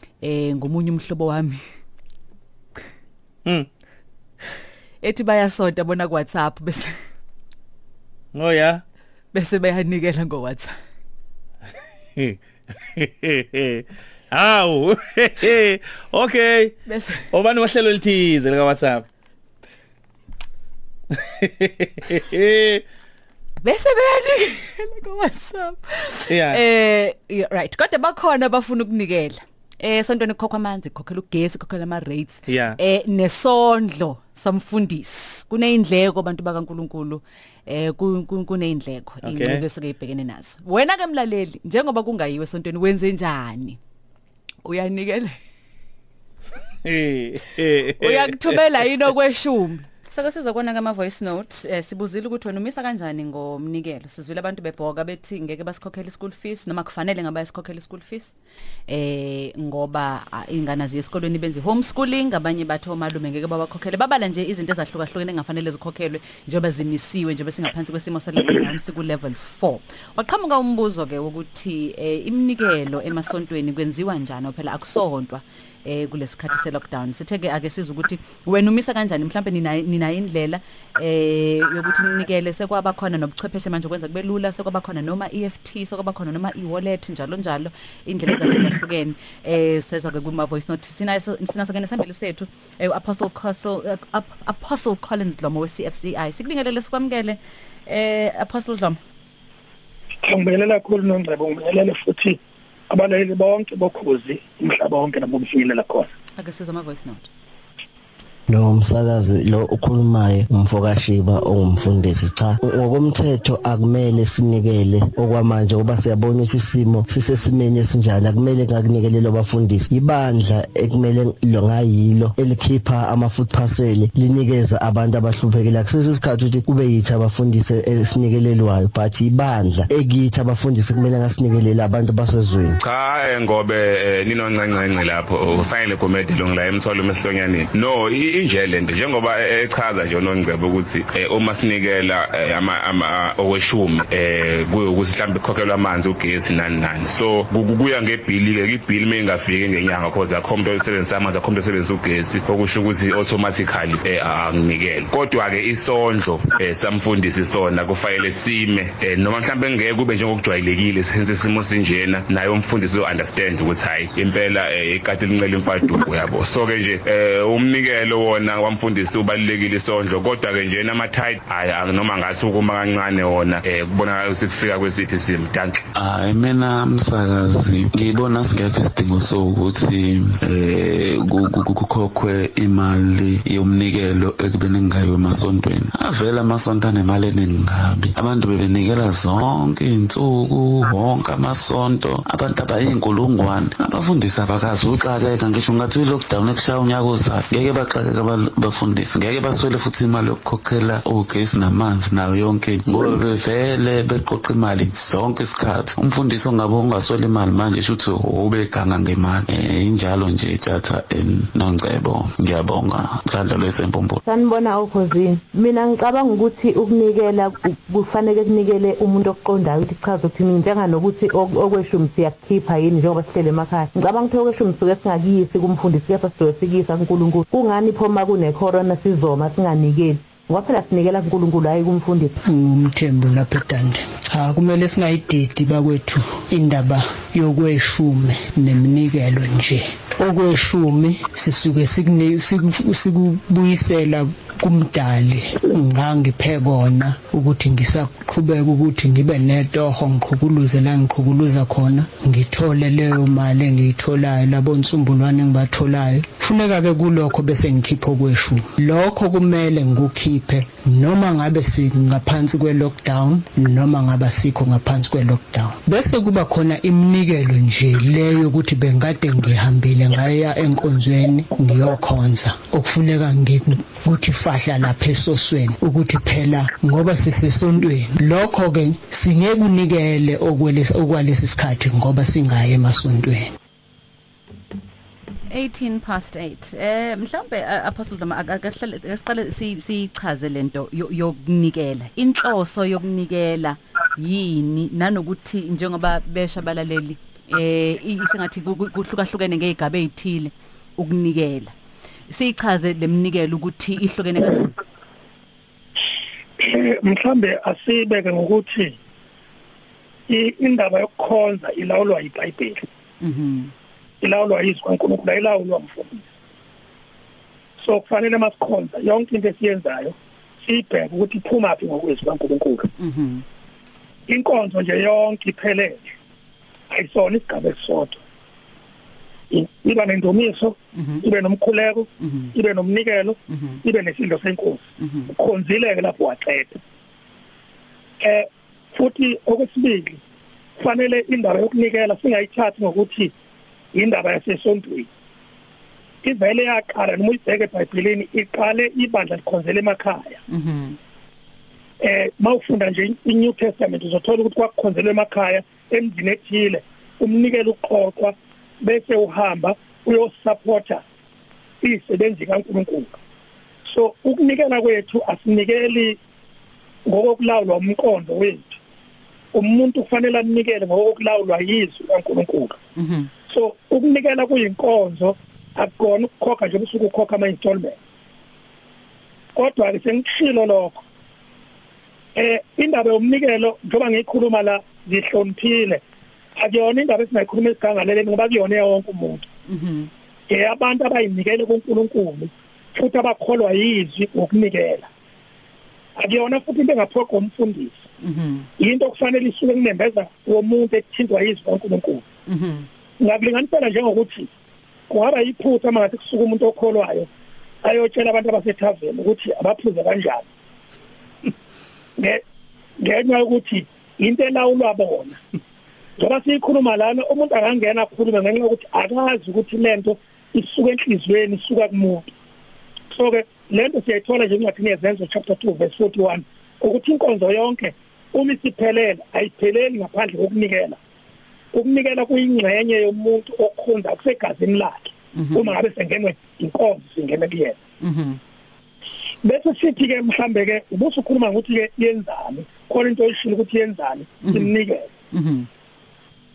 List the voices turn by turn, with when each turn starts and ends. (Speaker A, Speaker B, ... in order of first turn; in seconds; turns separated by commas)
Speaker A: 0.2-1.6, Speaker A: 5.0-7.0, Speaker B: 8.3-8.8, Speaker A: 9.3-10.8, Speaker B: 12.2-16.8, Speaker A: 16.9-17.3, Speaker B: 17.3-19.1, Speaker B: 21.1-22.8, Speaker A: 23.6-43.8, Speaker B: 26.3-26.6, Speaker B: 32.5-32.8, Speaker B: 39.2-39.6, Speaker A: 44.6-45.4, Speaker B: 46.9-48.6, Speaker A: 48.0-58.3, Speaker A: 58.9-99.0, Speaker C: 100.2-106.1, Speaker A: 106.4-107.3, Speaker D: 108.5-132.8, Speaker E: 132.8-175.8, Speaker F: 175.9-214.2, Speaker G: 214.2-232.4, Speaker H: 232.4-283.5, Speaker A: 285.5-301.7, Speaker A: 302.3-304.8, Speaker C: 306.6-309.0, Speaker C: 310.3-312.9, Speaker A: 313.2-313.7, Speaker C: 314.2-316.2, Speaker C: 317.8-322.9, Speaker A: 323.0-323.4, Speaker C: 324.3-326.1, Speaker C: 326.9-328.2, Speaker C: 329.5-336.8, Speaker A: 330.9-331.2, Speaker A: 332.2-332.5, Speaker A: 333.5-333.8, Speaker A: 335.0-335.3, Speaker C: 338.2-340.2, Speaker C: 340.8-343.3, Speaker C: 343.9-345.1, Speaker C: 346.2-350.4, Speaker A: 350.5-351.0, Speaker C: 352.0-361.0, Speaker C: 361.8-363.2, Speaker C: 363.9-366.2, Speaker C: 367.1-368.8, Speaker C: 369.5-372.8, Speaker A: 373.0-373.3, Speaker C: 373.5-378.0, Speaker C: 379.6-381.0, Speaker C: 382.4-386.0, Speaker C: 386.6-389.5, Speaker A: 389.7-390.1, Speaker C: 390.5-395.1, Speaker C: 396.2-397.9, Speaker A: 398.2-398.7, Speaker C: 398.8-402.2, Speaker A: 402.5-402.9, Speaker C: 403.2-404.5, Speaker C: 405.1-407.3, Speaker C: 407.8-410.5, Speaker C: 412.2-412.4, Speaker C: 413.0-415.4, Speaker C: 416.2-422.3, Speaker C: 423.1-431.0, Speaker C: 431.7-437.8, Speaker A: 435.4-435.7, Speaker A: 438.0-438.4, Speaker C: 439.4-445.1, Speaker A: 444.4-444.7, Speaker A: 445.3-445.7